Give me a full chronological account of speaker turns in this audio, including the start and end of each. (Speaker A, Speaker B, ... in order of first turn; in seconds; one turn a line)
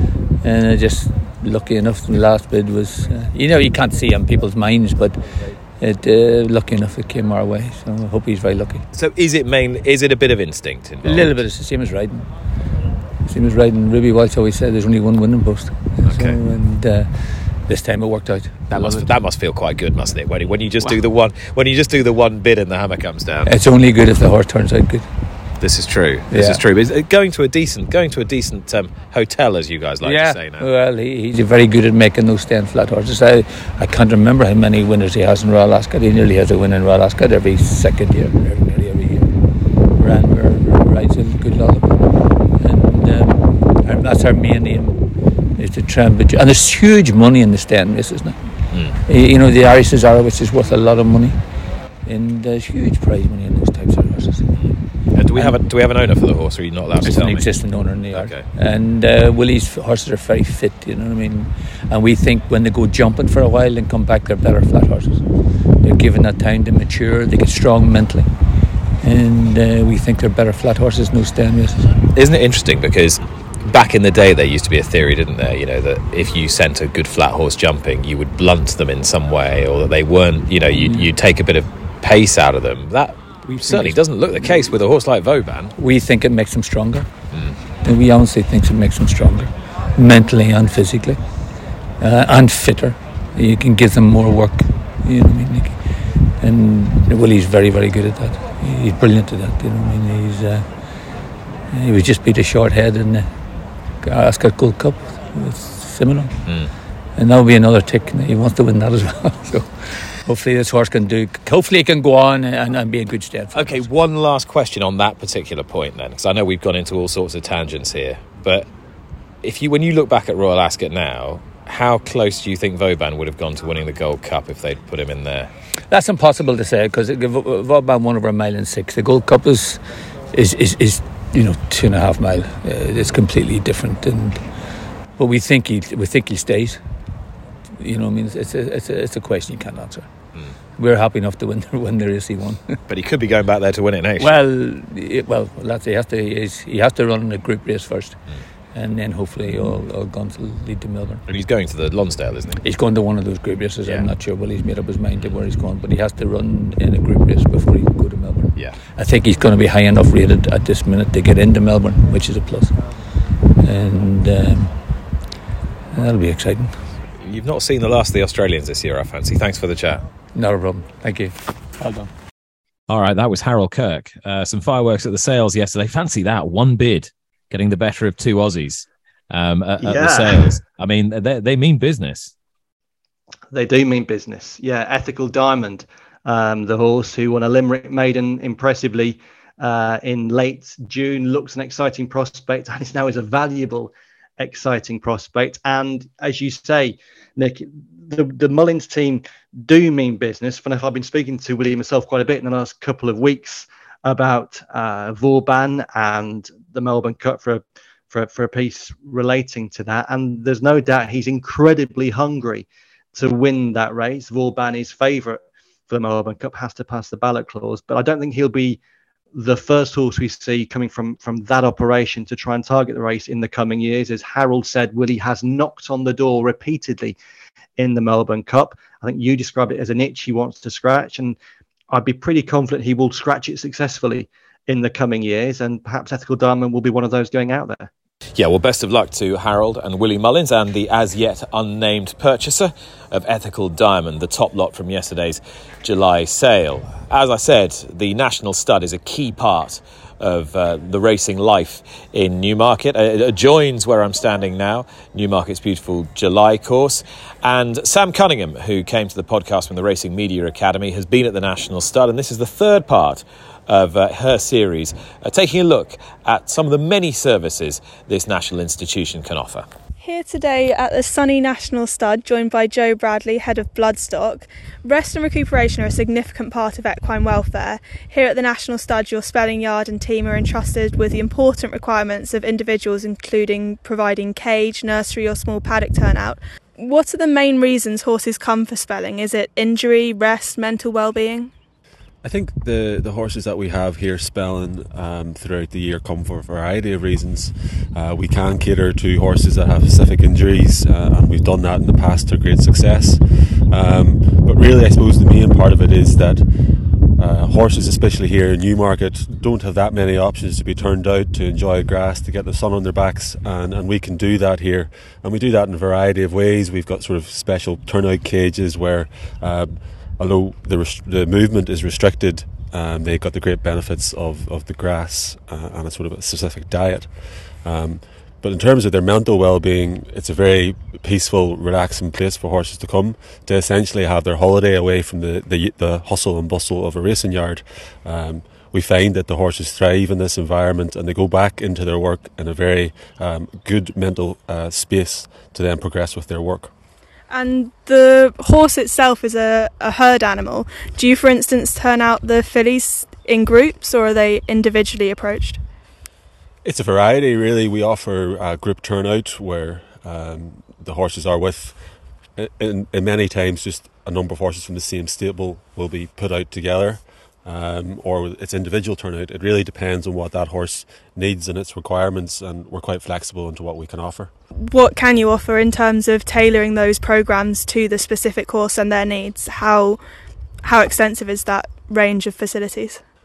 Speaker A: 0.4-5.2
Speaker A: 5.8-8.8
Speaker B: 8.9-11.4
Speaker A: 11.0-12.3
Speaker A: 13.2-19.1
Speaker B: 16.0-16.4
Speaker B: 18.7-23.5
Speaker A: 23.4-25.1
Speaker B: 25.6-30.7
Speaker A: 26.3-26.6
Speaker A: 30.0-39.4
Speaker A: 40.0-48.4
Speaker B: 48.7-49.0
Speaker A: 49.0-51.4
Speaker A: 52.0-54.5
Speaker B: 54.6-57.5
Speaker A: 57.0-65.2
Speaker B: 58.1-58.5
Speaker A: 65.8-68.3
Speaker A: 69.0-71.9
Speaker B: 72.1-85.7
Speaker A: 80.7-81.1
Speaker A: 83.5-84.6
Speaker A: 85.8-87.1
Speaker B: 87.3-87.6
Speaker A: 87.8-91.2
Speaker A: 92.0-95.8
Speaker A: 96.4-100.8
Speaker A: 101.7-103.3
Speaker A: 104.0-106.5
Speaker B: 106.5-106.7
Speaker A: 107.2-113.8
Speaker B: 113.5-118.7
Speaker B: 119.4-125.5
Speaker A: 125.9-134.6
Speaker A: 135.2-136.8
Speaker A: 137.8-140.1
Speaker A: 140.8-142.8
Speaker B: 142.9-144.4
Speaker A: 144.2-148.2
Speaker A: 148.7-151.2
Speaker B: 151.3-152.6
Speaker A: 152.6-162.8
Speaker B: 153.8-154.1
Speaker A: 163.6-164.8
Speaker A: 165.9-166.8
Speaker B: 167.2-170.0
Speaker A: 170.3-172.1
Speaker B: 172.9-182.3
Speaker C: 179.8-180.5
Speaker C: 183.5-218.8
Speaker C: 219.3-227.2
Speaker C: 227.8-231.4
Speaker C: 231.9-237.9
Speaker B: 238.3-269.7
Speaker D: 270.0-291.5
Speaker E: 292.2-306.5
Speaker E: 307.1-346.7
Speaker D: 347.3-355.6
Speaker E: 356.6-361.8
Speaker E: 362.4-374.3
Speaker D: 374.5-380.0
Speaker D: 380.6-383.0